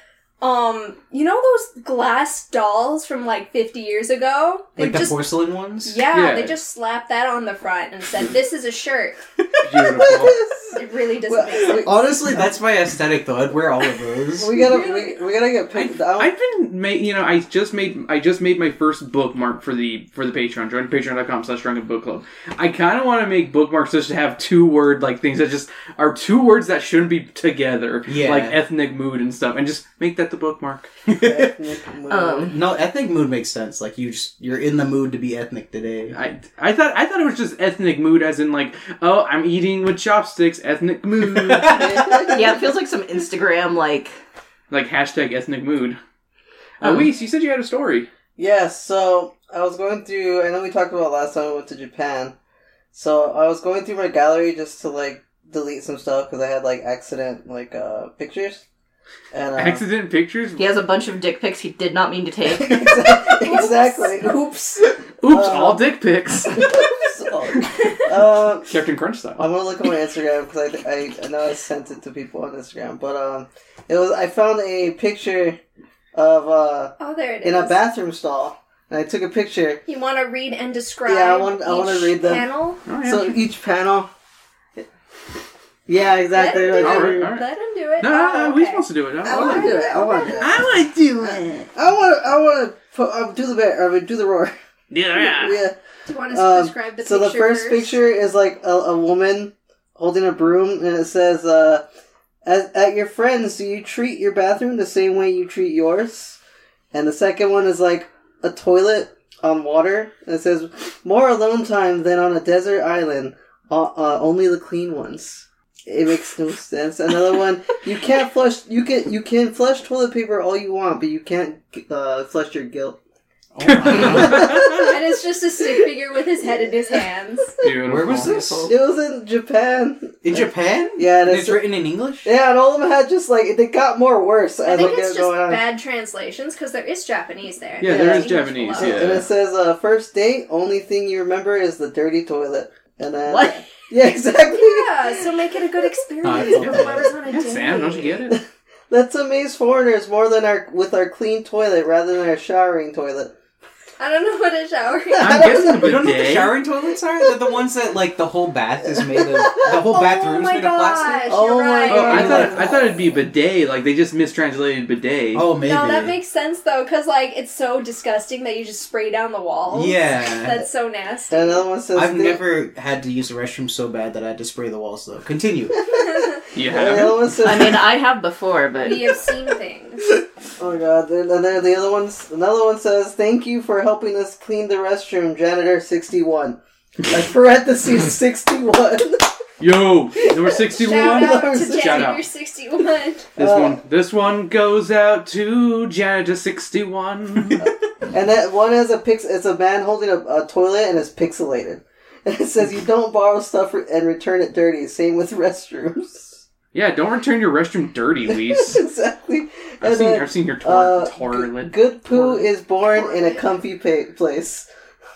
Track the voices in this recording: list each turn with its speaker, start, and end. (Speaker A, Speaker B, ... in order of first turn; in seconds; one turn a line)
Speaker A: 0.4-5.2
Speaker B: 4.8-6.0
Speaker A: 5.8-9.2
Speaker C: 6.1-6.5
Speaker C: 9.6-10.3
Speaker D: 9.7-12.4
Speaker A: 10.7-12.0
Speaker B: 11.7-14.6
Speaker D: 14.4-16.3
Speaker A: 14.6-15.2
Speaker C: 15.7-30.9
Speaker B: 28.1-28.6
Speaker B: 31.1-31.5
Speaker D: 31.1-32.5
Speaker E: 32.1-32.5
Speaker B: 32.5-36.1
Speaker C: 36.1-41.9
Speaker B: 41.2-42.3
Speaker D: 41.6-42.7
Speaker E: 42.3-44.1
Speaker C: 44.7-46.0
Speaker C: 46.8-48.1
Speaker E: 46.8-47.1
Speaker D: 48.4-52.3
Speaker D: 52.9-58.6
Speaker D: 59.3-59.8
Speaker C: 59.5-60.7
Speaker E: 60.6-62.9
Speaker D: 62.5-64.5
Speaker A: 63.1-64.9
Speaker C: 65.2-66.7
Speaker D: 65.2-65.8
Speaker D: 66.5-68.7
Speaker A: 67.7-68.0
Speaker C: 68.7-69.4
Speaker D: 69.4-75.6
Speaker D: 76.1-79.8
Speaker A: 77.0-77.8
Speaker A: 79.9-82.8
Speaker D: 81.0-82.5
Speaker C: 82.8-83.4
Speaker D: 83.0-84.1
Speaker D: 85.9-87.3
Speaker A: 86.3-90.6
Speaker C: 86.8-87.5
Speaker C: 88.0-89.7
Speaker D: 89.2-94.5
Speaker C: 90.4-91.7
Speaker C: 94.9-95.6
Speaker D: 95.1-95.8
Speaker A: 96.0-98.0
Speaker D: 96.3-101.8
Speaker D: 102.4-106.4
Speaker D: 106.9-123.0
Speaker B: 123.5-124.7
Speaker C: 123.7-124.9
Speaker D: 123.9-125.0
Speaker A: 124.8-127.6
Speaker C: 127.6-128.3
Speaker B: 127.9-128.7
Speaker E: 128.3-128.6
Speaker D: 128.7-131.7
Speaker B: 130.2-132.3
Speaker D: 132.2-135.6
Speaker A: 134.6-139.1
Speaker C: 137.8-139.3
Speaker D: 137.8-145.5
Speaker E: 143.3-143.7
Speaker A: 144.5-148.2
Speaker B: 146.2-147.1
Speaker C: 146.6-148.4
Speaker D: 148.3-153.3
Speaker A: 154.0-155.7
Speaker D: 155.1-156.2
Speaker C: 155.2-156.6
Speaker B: 155.8-161.3
Speaker D: 158.8-159.8
Speaker A: 159.8-162.6
Speaker D: 161.3-163.0
Speaker C: 161.9-165.4
Speaker B: 162.1-162.6
Speaker B: 165.3-166.2
Speaker A: 165.6-171.6
Speaker B: 169.7-170.7
Speaker D: 171.3-172.4
Speaker B: 171.9-175.8
Speaker A: 176.0-176.4
Speaker C: 176.5-177.3
Speaker D: 176.6-177.8
Speaker E: 177.4-179.2
Speaker A: 178.8-180.0
Speaker D: 180.6-189.3
Speaker C: 189.6-192.2
Speaker D: 190.2-192.1
Speaker A: 190.7-193.3
Speaker C: 193.3-197.6
Speaker D: 193.4-193.8
Speaker D: 197.6-206.4
Speaker C: 206.7-208.8
Speaker D: 208.3-214.7
Speaker C: 209.8-212.5
Speaker A: 212.9-213.4